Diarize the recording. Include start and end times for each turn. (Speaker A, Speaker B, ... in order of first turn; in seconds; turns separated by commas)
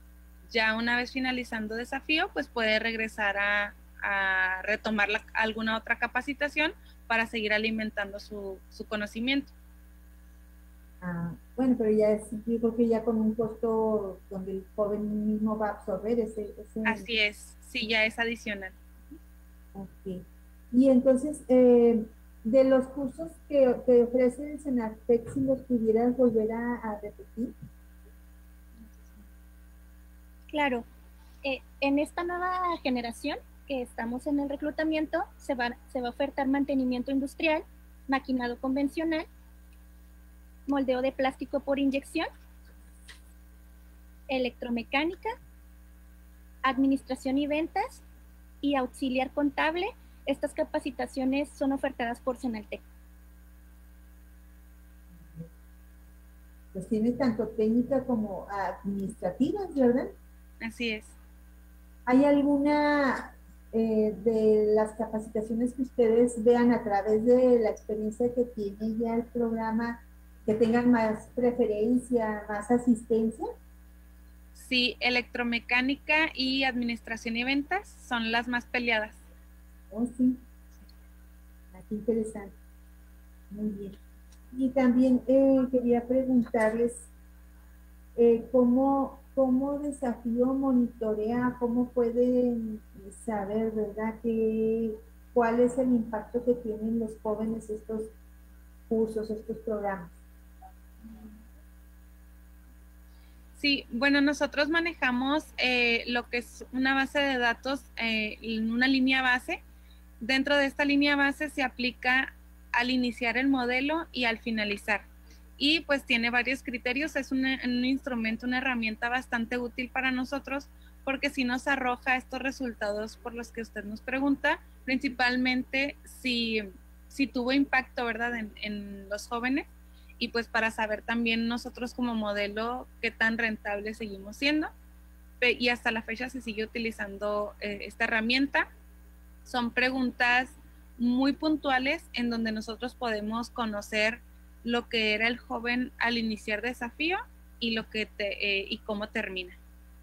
Speaker A: 0.5-9.5, Speaker B: 11.0-17.1, Speaker A: 16.8-18.7, Speaker B: 19.7-27.6, Speaker C: 30.5-30.8, Speaker C: 31.4-39.2, Speaker C: 40.7-42.3, Speaker C: 44.3-45.4, Speaker C: 46.6-48.0, Speaker C: 48.6-52.8, Speaker B: 56.7-60.1, Speaker A: 60.6-61.1, Speaker B: 62.1-73.5, Speaker A: 74.5-79.2, Speaker B: 79.9-80.4, Speaker B: 81.7-82.5, Speaker B: 83.5-84.0, Speaker B: 84.5-87.1, Speaker B: 88.2-98.1, Speaker B: 98.9-100.2, Speaker A: 103.6-109.6, Speaker A: 110.2-115.0, Speaker A: 115.6-134.7, Speaker A: 135.4-138.7, Speaker A: 139.4-149.6